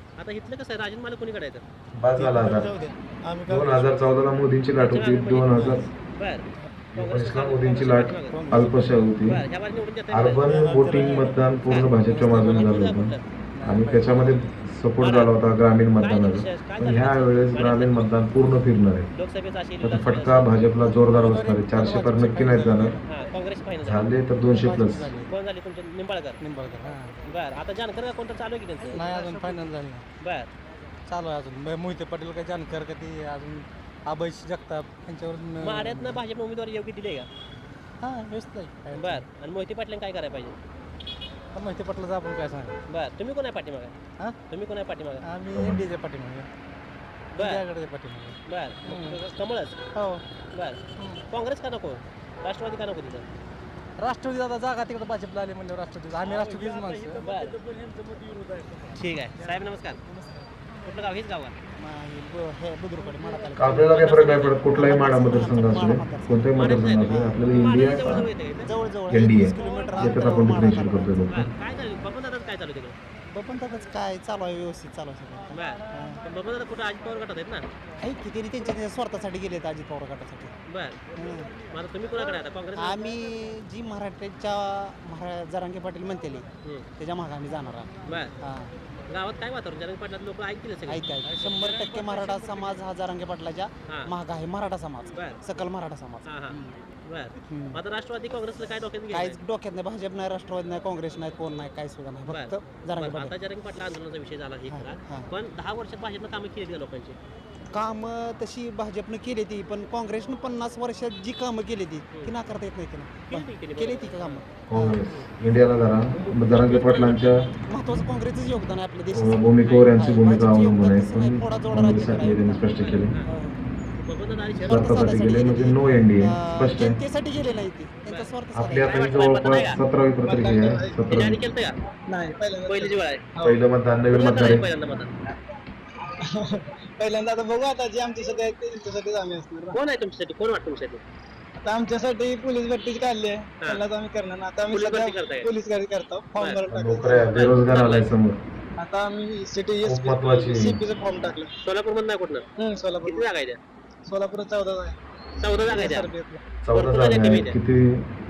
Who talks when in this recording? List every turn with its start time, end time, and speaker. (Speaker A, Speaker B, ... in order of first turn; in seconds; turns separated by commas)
Speaker A: 0.2-1.6, Speaker B: 1.9-2.7, Speaker C: 2.2-4.0, Speaker B: 3.5-5.9, Speaker A: 4.8-8.5, Speaker C: 5.5-5.9, Speaker B: 6.9-9.4, Speaker C: 8.3-8.8, Speaker A: 9.3-10.4, Speaker B: 10.1-19.1, Speaker C: 10.5-11.5, Speaker A: 11.7-13.2, Speaker D: 13.6-14.4, Speaker A: 15.0-15.3, Speaker A: 16.0-18.2, Speaker A: 19.1-20.7, Speaker B: 19.8-23.0, Speaker D: 21.1-23.0, Speaker C: 21.1-21.6, Speaker A: 23.1-24.1, Speaker B: 23.8-25.1, Speaker D: 24.5-25.3, Speaker A: 25.3-26.4, Speaker D: 26.4-27.3, Speaker A: 27.2-29.7, Speaker D: 28.8-30.1, Speaker A: 30.2-30.5, Speaker D: 31.1-36.2, Speaker A: 35.6-37.3, Speaker D: 38.0-39.3, Speaker A: 39.0-40.6, Speaker D: 41.5-42.8, Speaker A: 42.9-44.0, Speaker A: 44.5-45.2, Speaker D: 45.2-46.5, Speaker B: 45.5-45.9, Speaker D: 47.3-49.2, Speaker A: 47.4-47.6, Speaker A: 48.5-49.8, Speaker D: 49.9-50.2, Speaker A: 50.5-53.3, Speaker D: 51.0-51.2, Speaker D: 54.0-57.2, Speaker C: 56.6-58.9, Speaker A: 57.2-57.5, Speaker A: 59.0-60.0, Speaker A: 60.8-61.6, Speaker D: 61.8-67.4, Speaker B: 63.6-68.3, Speaker A: 63.8-64.6, Speaker A: 66.6-68.8, Speaker D: 68.6-71.3, Speaker B: 69.1-71.5, Speaker A: 69.6-70.2, Speaker A: 71.3-73.0, Speaker D: 73.3-76.2, Speaker A: 75.5-77.7, Speaker D: 78.0-80.5, Speaker A: 80.7-81.0, Speaker D: 81.1-81.5, Speaker A: 81.6-83.2, Speaker D: 82.8-88.7, Speaker A: 88.1-88.3, Speaker A: 89.1-92.8, Speaker D: 90.9-96.7, Speaker A: 95.2-95.4, Speaker A: 96.3-99.4, Speaker D: 97.5-97.8, Speaker D: 99.1-103.3, Speaker A: 102.3-107.2, Speaker D: 104.7-105.3, Speaker D: 107.7-115.1, Speaker A: 113.3-114.4, Speaker B: 114.7-117.5, Speaker D: 116.3-122.7, Speaker B: 119.1-123.1, Speaker A: 122.8-123.3, Speaker D: 123.2-123.6, Speaker A: 124.0-125.2, Speaker D: 124.6-129.0, Speaker B: 124.7-127.0, Speaker A: 128.1-128.3, Speaker B: 128.5-131.4, Speaker A: 128.8-129.8, Speaker E: 130.3-131.1, Speaker A: 131.1-131.8, Speaker E: 132.1-133.6, Speaker A: 132.7-133.2, Speaker B: 133.4-134.7, Speaker A: 134.1-135.1, Speaker E: 136.2-139.8, Speaker A: 139.7-141.0, Speaker E: 141.6-147.4, Speaker A: 144.7-145.5, Speaker A: 146.4-146.7, Speaker B: 146.7-148.4, Speaker A: 147.3-148.1, Speaker E: 148.8-151.5, Speaker B: 149.8-150.8, Speaker A: 151.6-152.5, Speaker E: 152.6-153.3, Speaker A: 153.0-153.6, Speaker E: 154.1-155.0, Speaker A: 155.4-156.1, Speaker E: 155.5-156.4, Speaker B: 156.7-158.1, Speaker A: 156.7-157.6